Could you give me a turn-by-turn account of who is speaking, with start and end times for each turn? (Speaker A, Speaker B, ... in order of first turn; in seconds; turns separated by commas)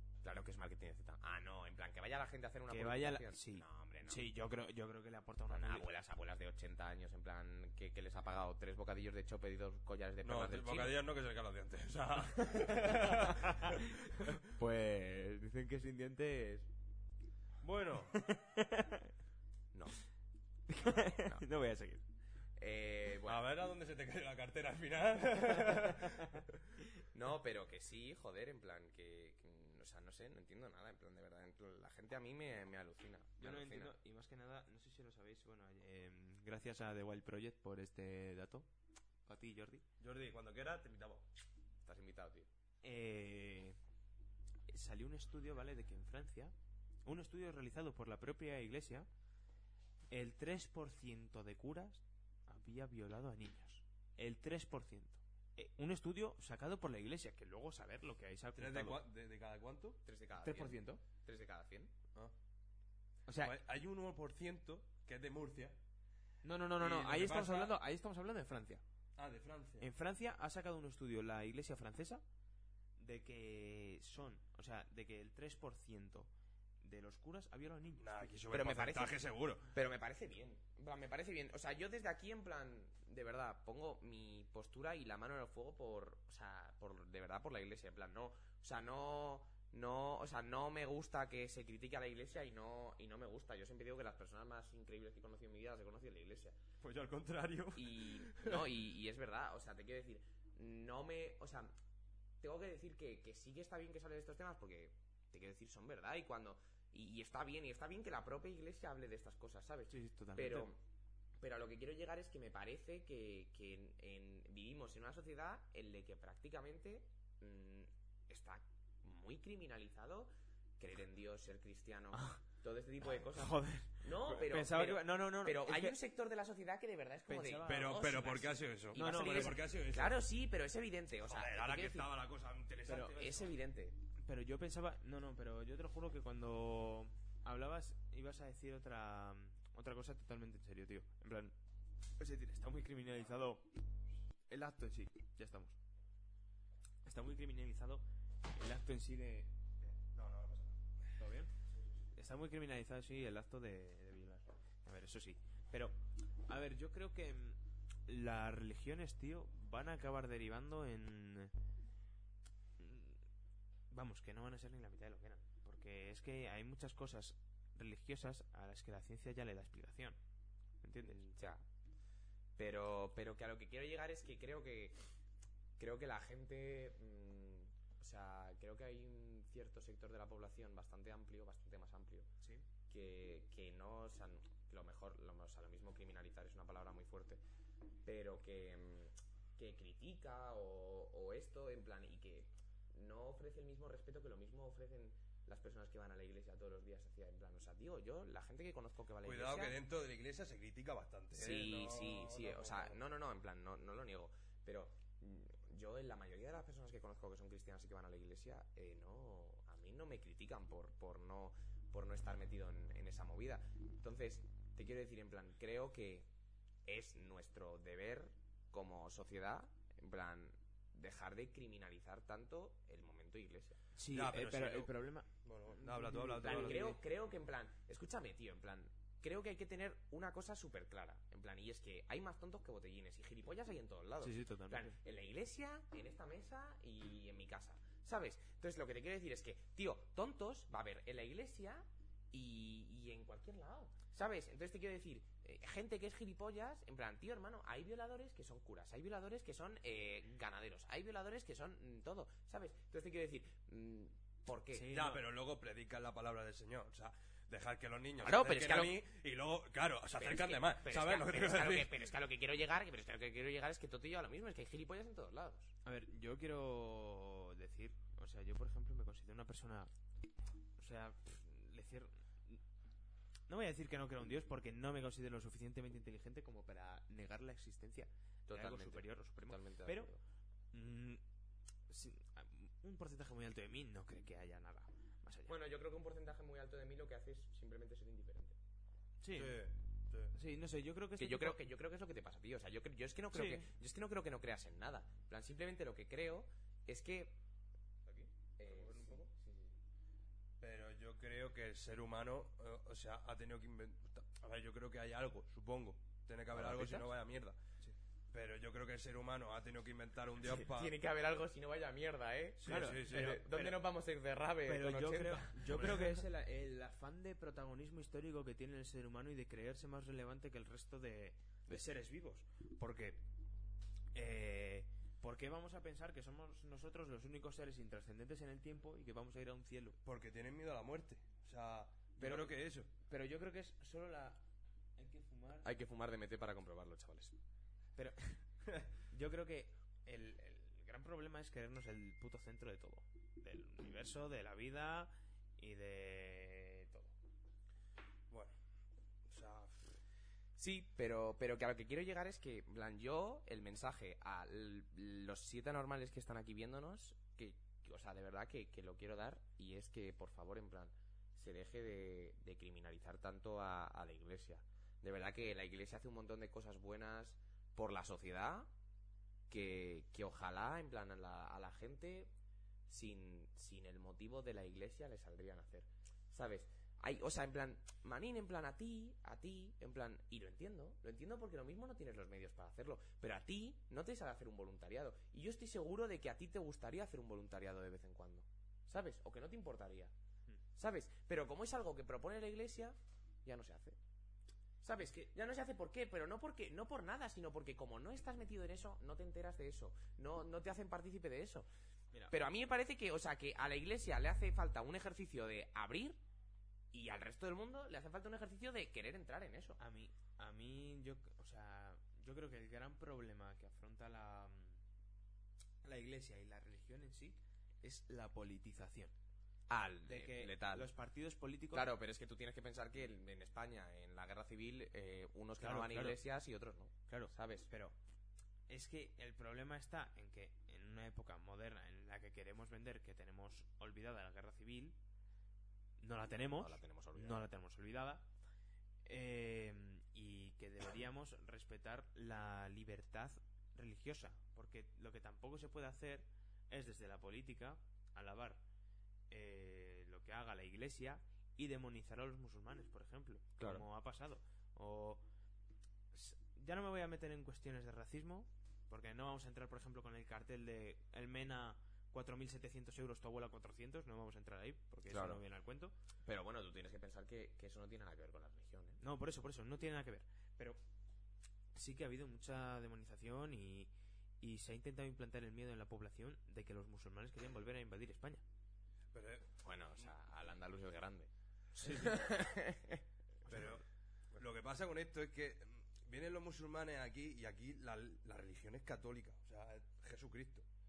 Speaker A: 0.2-4.3, Speaker B: 2.7-5.9, Speaker A: 5.5-11.0, Speaker C: 10.2-13.8, Speaker B: 12.6-13.8, Speaker B: 14.4-16.7, Speaker C: 17.6-18.2, Speaker B: 18.2-19.1, Speaker B: 20.7-22.0, Speaker A: 21.0-21.4, Speaker A: 22.6-23.5, Speaker C: 23.2-26.3, Speaker A: 27.1-33.9, Speaker B: 33.4-38.7, Speaker B: 39.2-39.8, Speaker C: 40.0-41.2, Speaker A: 41.8-42.5, Speaker B: 42.8-43.8, Speaker B: 44.7-46.5, Speaker B: 47.0-49.1, Speaker B: 50.1-59.0, Speaker C: 58.5-60.0, Speaker A: 60.0-61.9, Speaker B: 60.4-61.0, Speaker B: 63.3-63.5, Speaker C: 63.4-65.8, Speaker B: 66.4-68.8, Speaker C: 66.8-67.7, Speaker C: 69.2-69.9, Speaker B: 69.8-72.2, Speaker B: 73.0-76.3, Speaker B: 76.8-78.4, Speaker C: 78.0-79.7, Speaker A: 78.5-96.6, Speaker C: 96.8-98.7, Speaker A: 97.7-101.7, Speaker A: 102.4-110.8, Speaker B: 109.9-110.7, Speaker A: 111.4-132.1, Speaker B: 122.1-122.4, Speaker B: 123.1-126.0, Speaker B: 127.3-128.0, Speaker C: 127.6-130.2, Speaker B: 128.9-129.6, Speaker C: 131.3-133.6, Speaker B: 132.8-133.1, Speaker A: 133.0-134.0, Speaker B: 134.2-141.5, Speaker B: 142.2-143.6, Speaker B: 144.5-145.8, Speaker B: 147.0-148.0, Speaker B: 148.5-149.5, Speaker C: 149.9-150.8, Speaker B: 151.2-151.5, Speaker B: 152.1-156.0, Speaker B: 156.5-161.5, Speaker B: 162.8-163.2, Speaker B: 163.9-170.2, Speaker B: 170.8-171.2, Speaker A: 171.0-171.6, Speaker A: 172.6-175.0, Speaker A: 175.8-182.3, Speaker A: 182.9-187.4, Speaker A: 188.0-199.8, Speaker C: 199.2-203.0, Speaker A: 201.3-216.3, Speaker A: 216.8-223.8, Speaker B: 223.9-227.0, Speaker C: 224.1-224.9, Speaker C: 225.4-226.9, Speaker A: 226.4-254.9, Speaker B: 234.2-234.9, Speaker B: 254.7-255.2, Speaker C: 254.9-261.9, Speaker A: 258.2-259.0, Speaker A: 260.1-265.7, Speaker B: 265.8-269.9, Speaker B: 270.8-272.6, Speaker B: 273.5-280.1, Speaker A: 278.5-280.2, Speaker B: 280.7-281.2, Speaker B: 281.9-285.6, Speaker A: 285.5-288.6, Speaker B: 289.2-289.6, Speaker C: 289.3-290.3, Speaker B: 290.3-291.6, Speaker A: 291.2-297.4, Speaker B: 293.3-293.7, Speaker A: 298.1-299.8, Speaker C: 298.6-299.3, Speaker C: 300.6-307.6, Speaker B: 306.5-307.1, Speaker C: 308.3-310.9, Speaker A: 310.5-315.7, Speaker B: 312.6-313.4, Speaker C: 312.6-313.8, Speaker B: 314.6-323.2, Speaker C: 315.7-316.1, Speaker B: 324.1-330.0, Speaker C: 330.0-332.9, Speaker B: 332.2-334.4, Speaker B: 335.0-335.7, Speaker A: 335.6-337.4, Speaker B: 337.9-338.4, Speaker B: 339.1-347.1, Speaker C: 349.3-349.9, Speaker A: 350.6-368.7, Speaker A: 369.5-372.3, Speaker A: 372.9-390.1, Speaker A: 390.8-394.0, Speaker A: 394.8-401.7, Speaker B: 395.0-395.3, Speaker A: 402.3-406.2, Speaker A: 406.9-409.8, Speaker B: 409.8-414.8, Speaker B: 415.8-419.1, Speaker A: 419.7-420.9, Speaker B: 420.1-421.9, Speaker A: 421.7-427.7, Speaker B: 425.6-426.2, Speaker B: 427.1-427.9, Speaker B: 428.7-435.0, Speaker B: 436.0-438.2, Speaker A: 436.5-437.5, Speaker B: 439.1-448.6, Speaker B: 449.3-455.2, Speaker A: 453.6-453.8, Speaker B: 456.1-465.9, Speaker A: 465.1-465.4, Speaker A: 466.2-469.0, Speaker B: 469.0-470.8, Speaker B: 471.7-478.4, Speaker C: 479.1-479.5, Speaker A: 479.6-483.0, Speaker B: 481.8-482.2, Speaker B: 483.5-483.8, Speaker C: 483.5-483.8, Speaker C: 484.3-490.6